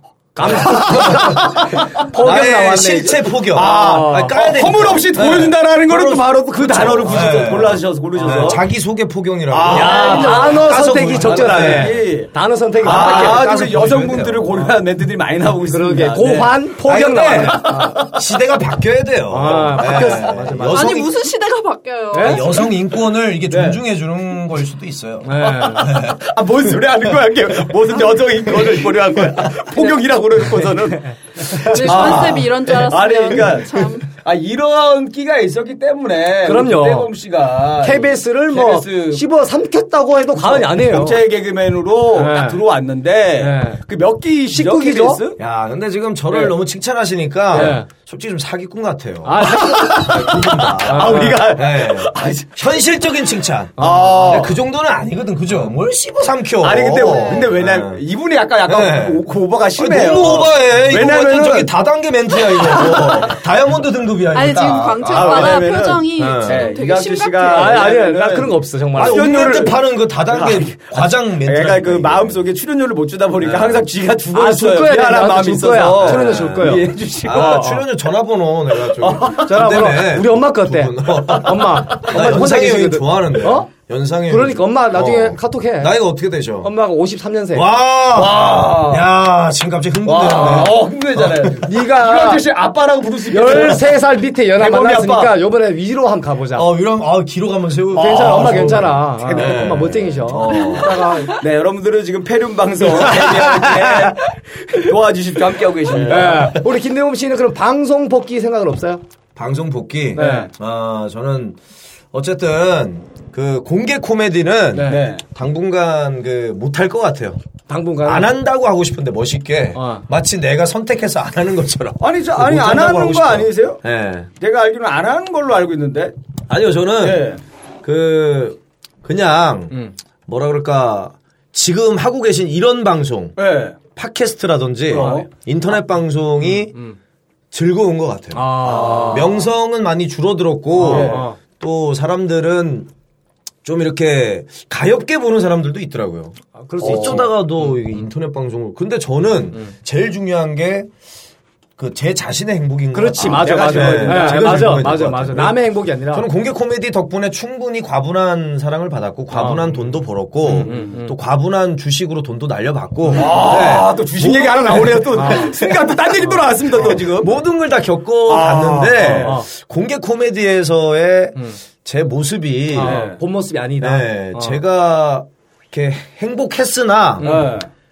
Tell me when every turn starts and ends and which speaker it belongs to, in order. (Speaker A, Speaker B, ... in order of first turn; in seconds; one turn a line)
Speaker A: 0.4-4.5
Speaker B: 0.4-12.1
Speaker C: 3.5-8.6
Speaker A: 8.2-8.6
Speaker C: 9.5-16.7
Speaker A: 9.7-13.5
Speaker D: 9.9-10.5
Speaker B: 12.8-14.7
Speaker A: 15.7-18.2
Speaker B: 16.8-21.2
Speaker A: 19.3-21.0
Speaker D: 20.6-22.7
Speaker A: 22.1-22.4
Speaker B: 22.2-26.3
Speaker C: 23.5-23.8
Speaker A: 25.2-26.0
Speaker C: 25.5-39.2
Speaker A: 31.4-32.2
Speaker D: 31.5-34.1
Speaker B: 31.9-32.4
Speaker A: 36.5-37.1
Speaker A: 37.8-41.2
Speaker C: 40.4-45.4
Speaker A: 42.1-42.6
Speaker A: 43.4-43.8
Speaker A: 44.5-45.2
Speaker B: 45.4-58.0
Speaker C: 46.3-46.5
Speaker A: 47.5-47.9
Speaker C: 47.5-47.8
Speaker A: 49.2-51.5
Speaker C: 49.4-52.6
Speaker C: 53.8-54.6
Speaker A: 53.8-54.2
Speaker C: 56.6-61.7
Speaker D: 57.0-57.5
Speaker B: 58.7-59.2
Speaker B: 59.8-65.6
Speaker C: 62.5-63.4
Speaker D: 64.3-67.9
Speaker C: 65.0-77.8
Speaker B: 66.2-66.7
Speaker A: 67.5-69.3
Speaker B: 69.0-72.5
Speaker B: 73.4-73.9
Speaker A: 74.3-77.5
Speaker B: 75.9-86.7
Speaker C: 79.0-79.5
Speaker A: 79.3-83.7
Speaker A: 84.3-85.9
Speaker A: 86.6-87.7
Speaker B: 87.5-91.7
Speaker C: 88.1-89.1
Speaker C: 90.1-94.0
Speaker A: 90.1-90.8
Speaker A: 91.6-92.5
Speaker A: 93.3-96.7
Speaker C: 94.6-95.4
Speaker B: 96.5-101.1
Speaker A: 98.0-101.4
Speaker C: 98.0-99.6
Speaker C: 101.2-106.6
Speaker A: 103.0-104.1
Speaker A: 106.0-109.0
Speaker B: 109.4-111.6
Speaker C: 110.1-110.5
Speaker A: 110.2-110.5
Speaker B: 112.1-117.4
Speaker A: 114.8-115.0
Speaker C: 114.8-115.2
Speaker A: 117.7-118.3
Speaker B: 118.0-124.3
Speaker A: 119.8-120.0
Speaker C: 122.0-123.8
Speaker C: 124.4-126.1
Speaker B: 126.5-127.3
Speaker C: 127.0-127.4
Speaker B: 127.8-133.4
Speaker C: 133.4-133.8
Speaker B: 133.9-136.8
Speaker C: 134.9-135.3
Speaker A: 134.9-135.3
Speaker B: 137.5-142.9
Speaker A: 138.3-139.4
Speaker C: 138.6-139.4
Speaker A: 140.8-141.4
Speaker C: 140.8-141.3
Speaker B: 143.7-150.9
Speaker A: 146.6-147.3
Speaker C: 146.8-147.2
Speaker B: 151.8-165.9
Speaker A: 152.9-156.3
Speaker C: 153.2-154.7
Speaker A: 159.3-161.2
Speaker C: 160.6-160.9
Speaker C: 163.1-167.3
Speaker A: 165.1-165.6
Speaker B: 166.8-173.0
Speaker C: 168.3-169.4
Speaker A: 169.1-169.5
Speaker A: 172.7-174.6
Speaker C: 172.8-173.2
Speaker B: 173.8-177.4
Speaker A: 177.2-177.5
Speaker C: 177.2-177.7